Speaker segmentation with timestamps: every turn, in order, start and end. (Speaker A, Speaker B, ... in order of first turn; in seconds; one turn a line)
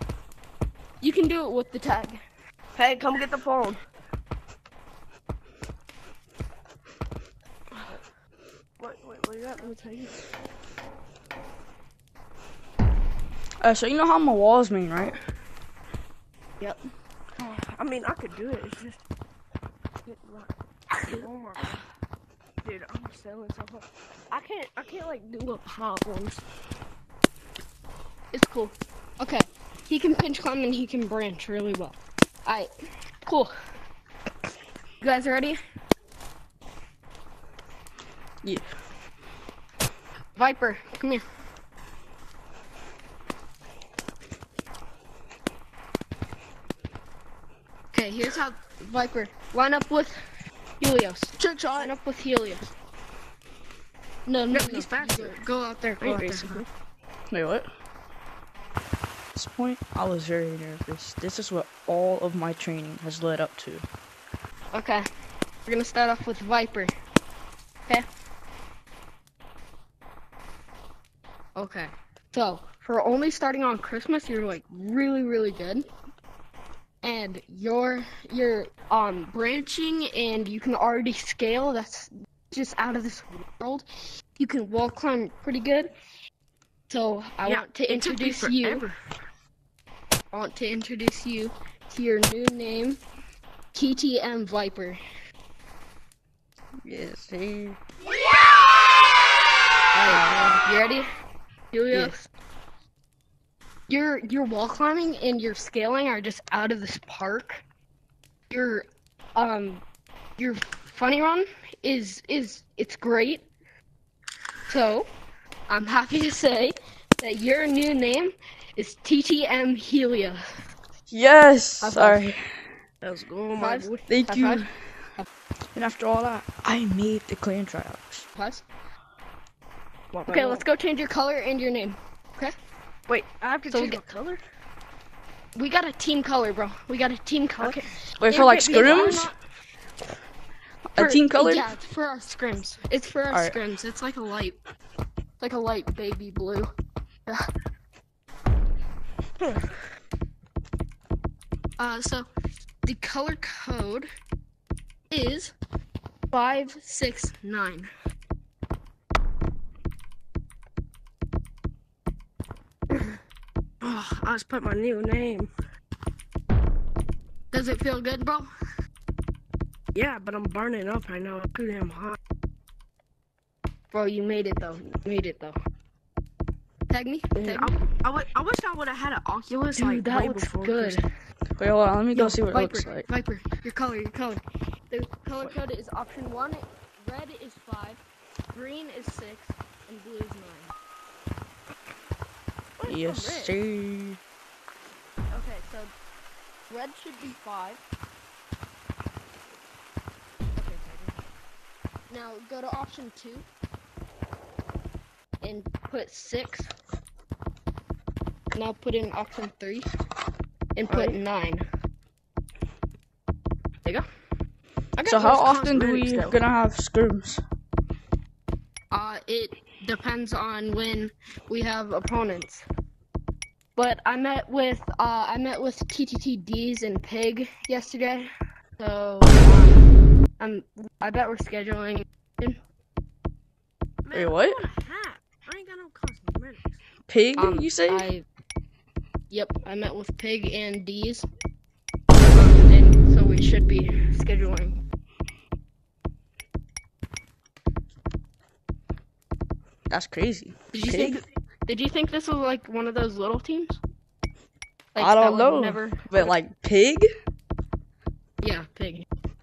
Speaker A: 1.0-2.2
Speaker B: 2.8-3.8
Speaker B: 8.8-10.1
Speaker C: 13.6-15.2
Speaker B: 17.4-19.0
Speaker B: 20.0-21.8
Speaker A: 21.1-21.8
Speaker B: 22.6-26.4
Speaker A: 28.3-32.7
Speaker A: 33.2-33.5
Speaker A: 35.0-35.6
Speaker A: 40.4-41.2
Speaker A: 47.9-50.2
Speaker A: 50.8-52.7
Speaker B: 51.4-51.9
Speaker A: 54.2-56.6
Speaker B: 54.5-55.4
Speaker B: 56.0-56.6
Speaker C: 57.3-57.7
Speaker C: 59.3-63.8
Speaker A: 64.7-65.1
Speaker A: 65.7-66.9
Speaker A: 71.6-75.9
Speaker A: 77.0-85.9
Speaker A: 86.9-88.8
Speaker B: 87.4-88.9
Speaker A: 90.3-93.0
Speaker A: 93.7-95.0
Speaker C: 96.8-97.8
Speaker A: 99.9-101.1
Speaker C: 100.1-100.6
Speaker A: 101.7-102.3
Speaker A: 103.9-107.6
Speaker A: 108.5-109.8
Speaker A: 110.4-113.5
Speaker A: 114.7-115.1
Speaker A: 115.7-120.4
Speaker C: 121.1-122.4
Speaker A: 121.8-122.2
Speaker B: 123.0-123.9
Speaker A: 123.6-124.6
Speaker C: 124.1-124.7
Speaker C: 125.8-128.2
Speaker A: 128.3-128.6
Speaker B: 130.1-130.6
Speaker A: 130.3-132.5
Speaker B: 133.1-134.4
Speaker A: 133.7-134.0
Speaker A: 135.6-139.4
Speaker B: 137.6-139.3
Speaker C: 138.2-139.3
Speaker C: 140.9-141.6
Speaker A: 141.0-144.6
Speaker C: 143.3-143.6
Speaker A: 145.4-146.7
Speaker A: 151.8-152.3
Speaker A: 152.8-154.1
Speaker A: 155.1-155.6
Speaker A: 156.3-157.9
Speaker B: 163.8-165.5
Speaker A: 167.5-168.5
Speaker B: 169.9-172.2
Speaker A: 173.9-175.6
Speaker A: 176.9-177.8
Speaker B: 177.3-181.0
Speaker A: 179.8-181.0
Speaker C: 181.6-183.1
Speaker A: 182.1-188.0
Speaker A: 188.5-190.7
Speaker B: 192.8-193.5
Speaker C: 192.8-194.2
Speaker A: 195.3-195.9
Speaker A: 196.7-197.8
Speaker A: 200.6-201.2
Speaker A: 202.1-203.4
Speaker A: 205.4-206.7
Speaker A: 208.5-209.9
Speaker A: 210.7-211.6
Speaker B: 210.9-211.2
Speaker B: 215.0-216.4
Speaker C: 215.1-217.4
Speaker A: 218.9-222.6
Speaker A: 223.8-229.8
Speaker A: 230.4-232.6
Speaker B: 234.1-236.8
Speaker C: 234.1-234.6
Speaker C: 237.1-238.1
Speaker A: 237.3-238.2
Speaker A: 239.3-241.3
Speaker A: 242.2-244.8
Speaker C: 249.9-251.2
Speaker A: 250.7-253.8
Speaker A: 254.9-256.4
Speaker C: 255.0-257.1
Speaker A: 258.4-259.1